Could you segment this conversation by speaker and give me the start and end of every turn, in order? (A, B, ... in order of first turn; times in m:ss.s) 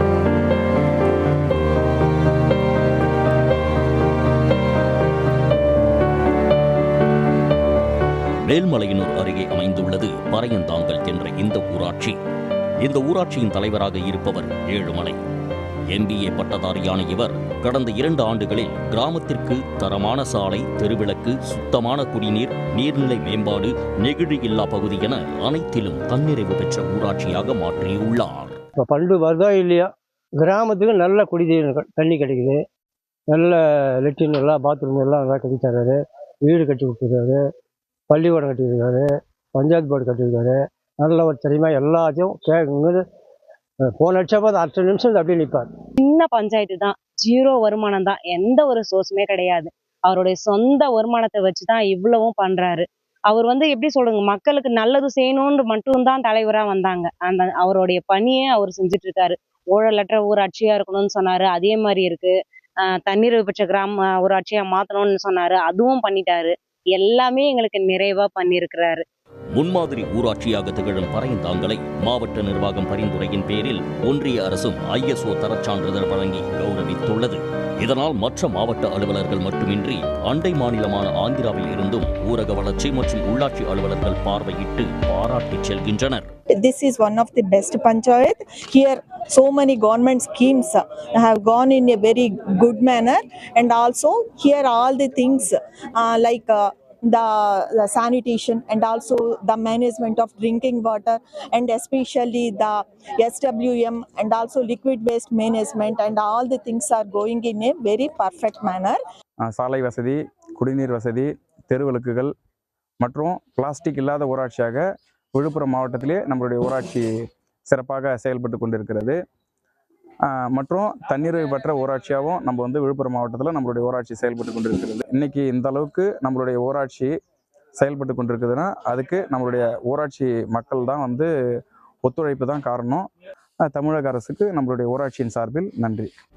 0:08.4-0:12.2 A
0:12.8-0:15.2 A
0:15.9-0:28.6 A
0:28.9-0:29.9 B
0:30.4-0:32.6 B
0:33.3-0:37.4 B
0:38.1-0:39.1 B
0:39.6-0:43.0 B
0:44.0-0:45.7 B
0:46.0-1:09.0 C
1:09.5-1:26.3 A
1:26.6-1:49.0 D
1:49.4-1:52.3 E
1:53.0-1:54.8 E
1:55.4-1:57.1 E
1:57.7-1:59.2 E
2:00.3-2:07.1 E
2:07.8-2:11.3 E
2:12.0-2:13.1 E
2:13.7-2:16.1 E